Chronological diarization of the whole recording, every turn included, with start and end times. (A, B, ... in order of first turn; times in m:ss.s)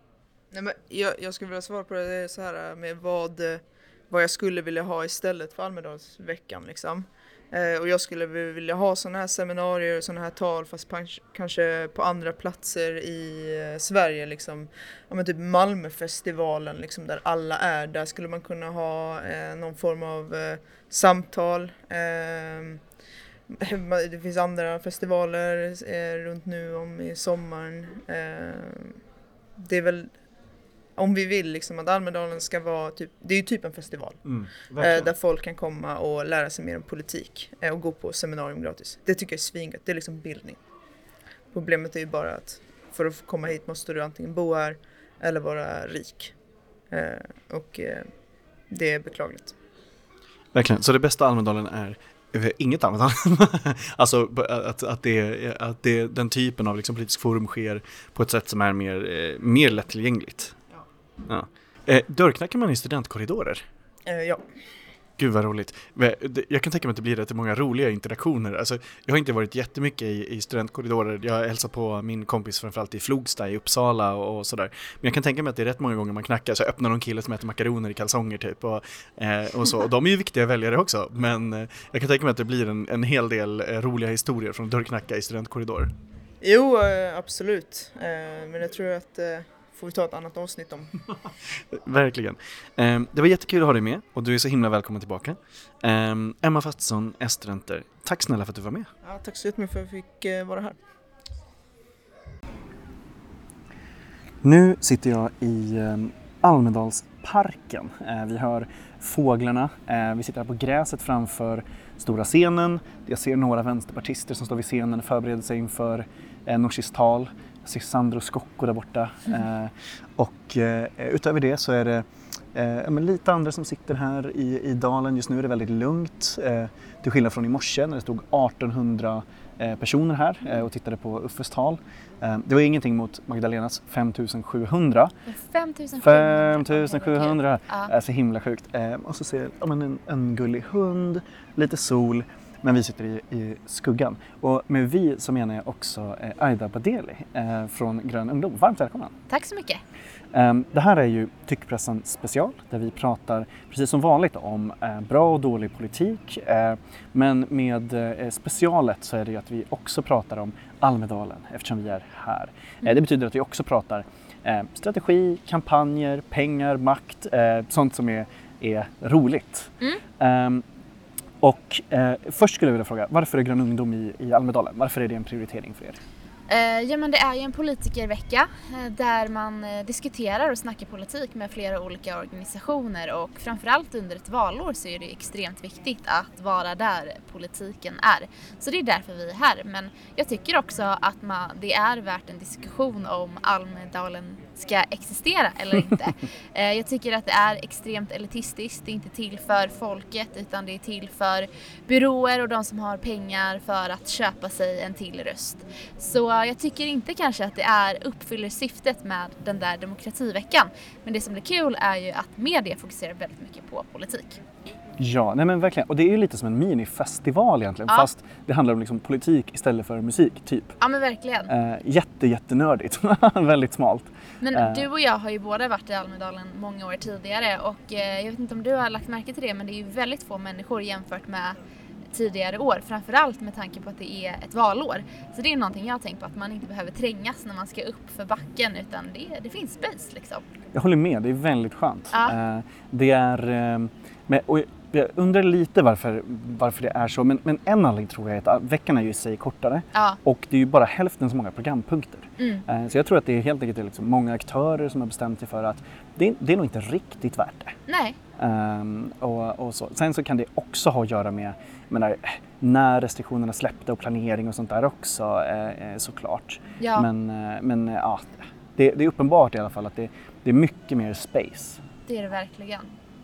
0:00.5-0:22.8 A
0:23.5-0:29.0 A
0:29.6-0:30.1 A
0:31.0-0:34.2 A
0:34.2-0:35.1 B
0:34.8-0:40.6 A
0:41.5-0:46.4 A
0:46.9-0:48.1 A
0:48.7-0:49.6 A
0:50.5-1:00.6 B
1:01.3-1:03.6 B
1:04.0-1:04.5 A
1:05.2-1:25.9 B
1:26.4-1:30.9 A
1:31.7-1:38.9 B
1:39.0-1:40.8 A
1:44.4-2:15.1 B
2:15.3-2:17.9 C
2:16.0-2:29.2 B
2:29.3-2:29.8 C
2:30.3-2:50.6 B
2:51.4-2:56.0 B
2:56.5-3:34.4 C
3:35.0-3:40.8 B
3:40.8-3:41.5 C
3:41.5-3:44.9 B
3:44.4-3:51.6 C
3:52.1-4:00.5 C
4:00.7-4:17.8 B
4:09.9-4:10.2 C
4:12.4-4:12.6 C
4:17.9-4:18.2 C
4:18.4-4:31.8 B
4:26.8-4:27.1 C
4:32.1-4:32.9 C